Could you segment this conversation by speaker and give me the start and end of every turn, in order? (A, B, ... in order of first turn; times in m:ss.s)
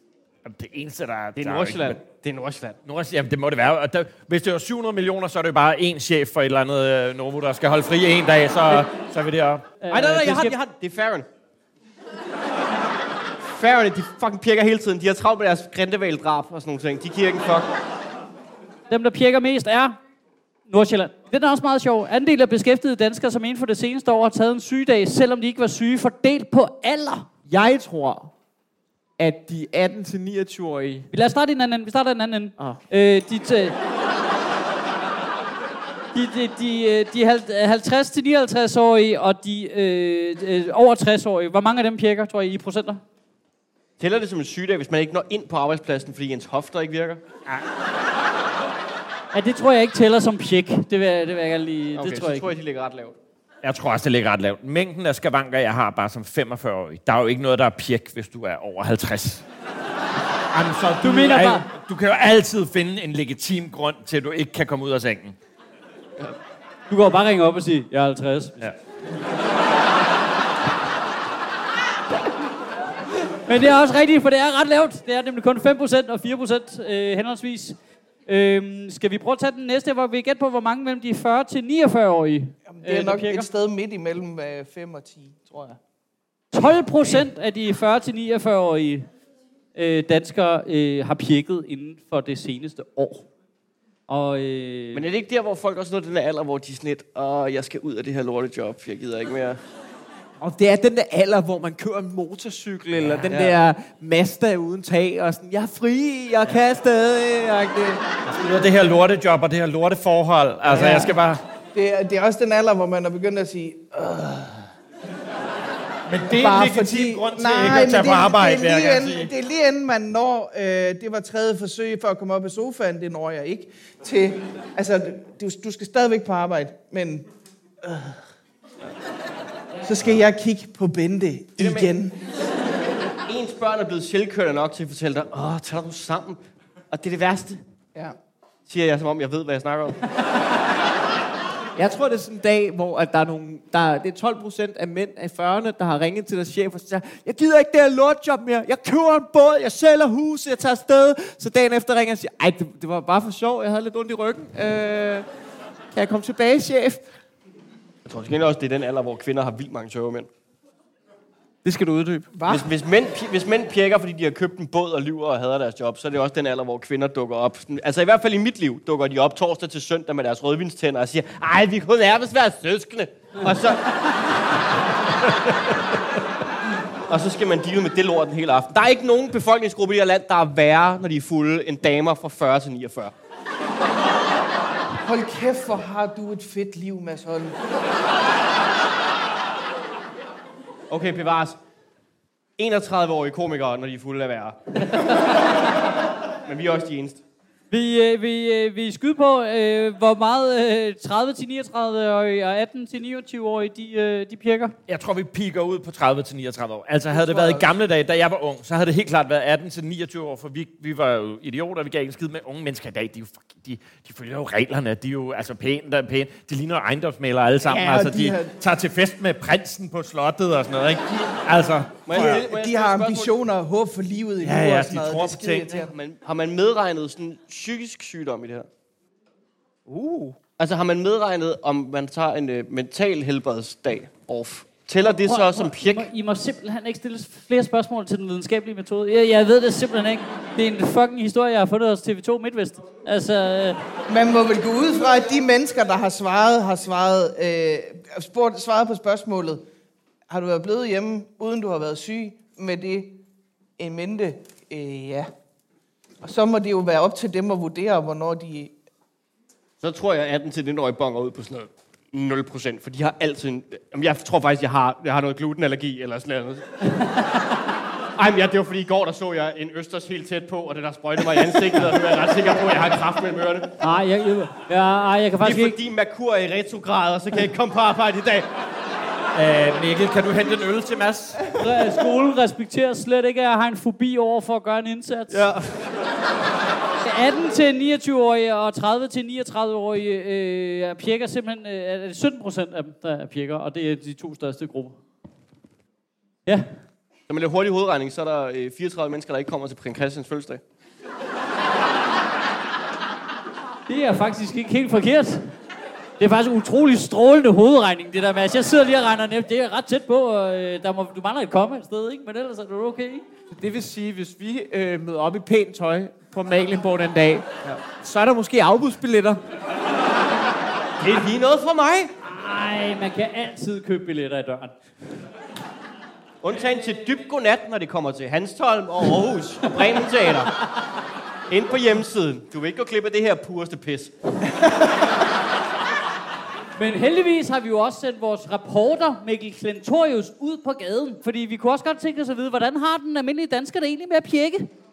0:00.4-0:02.0 A
0:01.4-0:02.8 B
0:02.8-0:09.6 A
0:09.8-0:10.5 C
0:09.9-0:11.2 B
0:13.4-0:17.7 B
0:18.9-0:20.0 C
0:20.7-0:27.3 C
0:27.5-0:28.3 D
0:29.2-0:31.1 D
0:31.1-0:33.8 C
0:36.1-0:43.0 C
0:44.0-0:47.2 B
0:49.3-0:52.5 C
0:52.0-0:53.2 B
0:53.6-0:59.4 A
1:00.5-1:05.4 A
1:01.0-1:01.6 C
1:06.9-1:08.6 C
1:13.5-1:23.5 C
1:22.7-1:25.8 E
1:26.5-1:29.0 C
1:29.7-1:33.3 C
1:34.1-1:35.0 C
1:34.9-1:39.6 B
1:40.4-1:48.0 D
1:43.3-1:43.6 B
1:48.2-1:51.4 A
1:50.7-1:51.2 E
1:51.7-1:54.7 E
1:56.1-1:59.3 A
1:56.2-2:07.3 E
2:07.8-2:08.2 E
2:09.8-2:12.2 E
2:11.6-2:11.9 B
2:13.2-2:16.4 B
2:16.9-2:17.6 B
2:18.7-2:20.0 B
2:21.8-2:35.2 D
2:35.9-2:37.0 D
2:38.0-2:40.3 B
2:41.6-2:42.3 D
2:42.3-2:42.7 E
2:42.5-2:53.8 B
2:57.1-3:03.1 B
3:05.0-3:07.6 E
3:10.9-3:11.6 B
3:12.6-3:15.0 B
3:16.4-3:17.2 B
3:17.7-3:24.7 C
3:24.9-3:42.4 A
3:27.1-3:27.7 E
3:37.6-3:38.5 E
3:42.0-3:43.3 B
3:42.1-3:45.9 E
3:44.4-3:45.8 A
3:45.9-3:48.7 B
3:49.9-3:50.3 D
3:50.6-3:56.1 B
3:55.2-4:03.8 C
4:04.1-4:09.6 E
4:10.3-4:13.2 E
4:13.8-4:15.3 E
4:16.2-4:18.7 E
4:19.8-4:26.6 B
4:27.0-4:27.4 C
4:28.2-4:33.7 B
4:33.8-4:35.8 C
4:35.4-4:38.5 B
4:39.3-4:41.5 A
4:41.6-4:45.5 C
4:45.3-4:45.9 B
4:47.0-4:55.0 C
4:57.3-5:00.6 B
5:03.9-5:05.5 C
5:06.2-5:13.2 C
5:13.5-5:19.4 D
5:21.0-5:22.1 B
5:22.2-5:24.7 C
5:26.4-5:30.5 B
5:31.5-5:34.1 B
5:36.8-5:44.7 C